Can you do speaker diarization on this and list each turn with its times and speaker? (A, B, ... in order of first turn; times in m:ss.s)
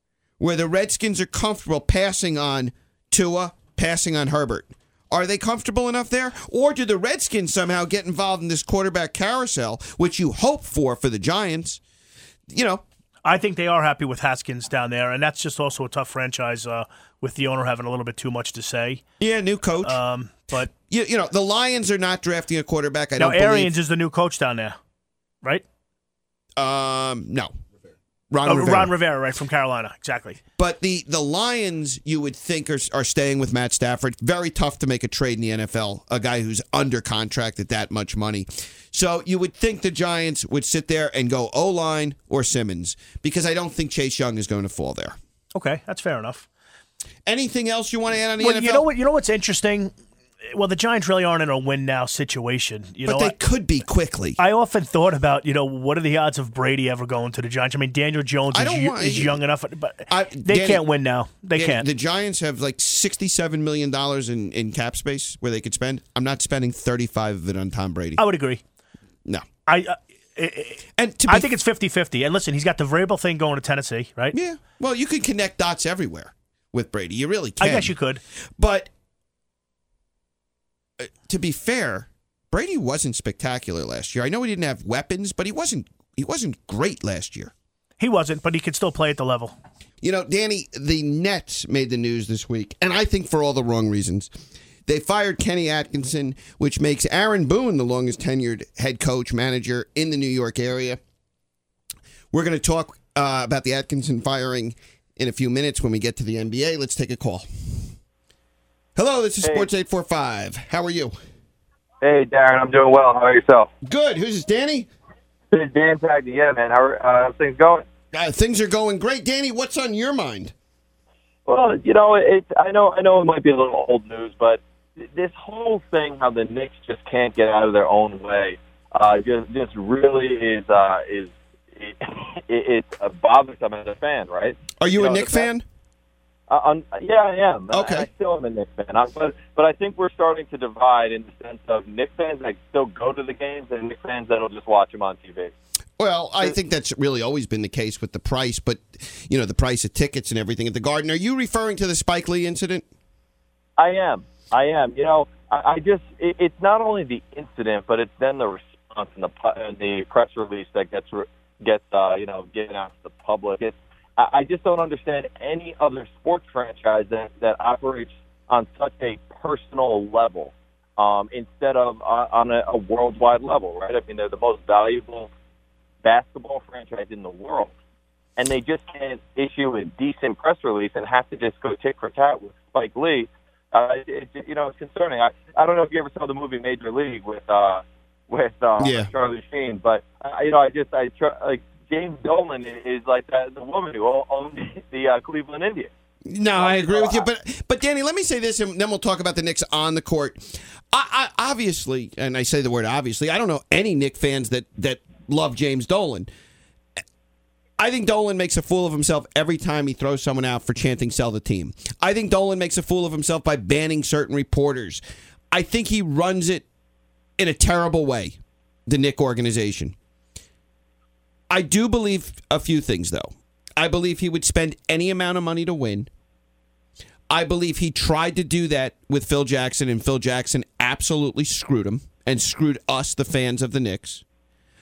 0:00.4-0:11.8 A
0:12.5-0:12.8 A
0:13.2-0:19.0 B
0:19.2-0:20.0 A
0:19.8-0:20.7 B
0:20.9-0:23.7 A
0:23.2-0:24.8 B
0:26.6-0:27.5 A
0:28.3-0:28.9 A
0:28.4-0:30.4 B
0:30.6-0:45.2 A
0:45.6-0:46.5 B
0:47.3-0:48.9 A
0:48.4-0:49.9 B
0:50.5-0:53.4 B
0:53.0-0:54.4 A
0:54.4-1:01.9 B
0:58.5-0:59.4 A
1:00.1-1:00.8 A
1:01.5-1:08.2 A
1:08.2-1:08.6 B
1:09.7-1:14.4 B
1:11.0-1:11.5 A
1:14.3-1:18.0 A
1:17.6-1:18.2 B
1:18.6-1:18.9 A
1:21.0-1:27.5 A
1:28.0-1:29.6 B
1:30.0-1:34.3 A
1:34.9-1:41.0 A
1:42.3-1:47.9 A
1:49.0-1:51.1 A
1:49.4-1:49.7 C
1:52.0-1:53.7 C
1:53.8-1:54.9 A
1:55.5-1:57.9 C
1:58.1-2:00.5 A
2:01.4-2:15.5 C
2:14.8-2:15.6 A
2:16.5-2:25.5 C
2:17.7-2:18.1 A
2:26.0-2:32.9 A
2:33.8-2:55.3 C
2:56.0-2:57.7 C
2:58.4-3:15.9 C
3:08.8-3:09.1 A
3:16.3-3:26.3 A
3:16.6-3:17.2 C
3:27.8-3:36.6 A
3:37.4-3:39.9 A
3:41.5-3:46.1 A
3:47.3-3:54.2 A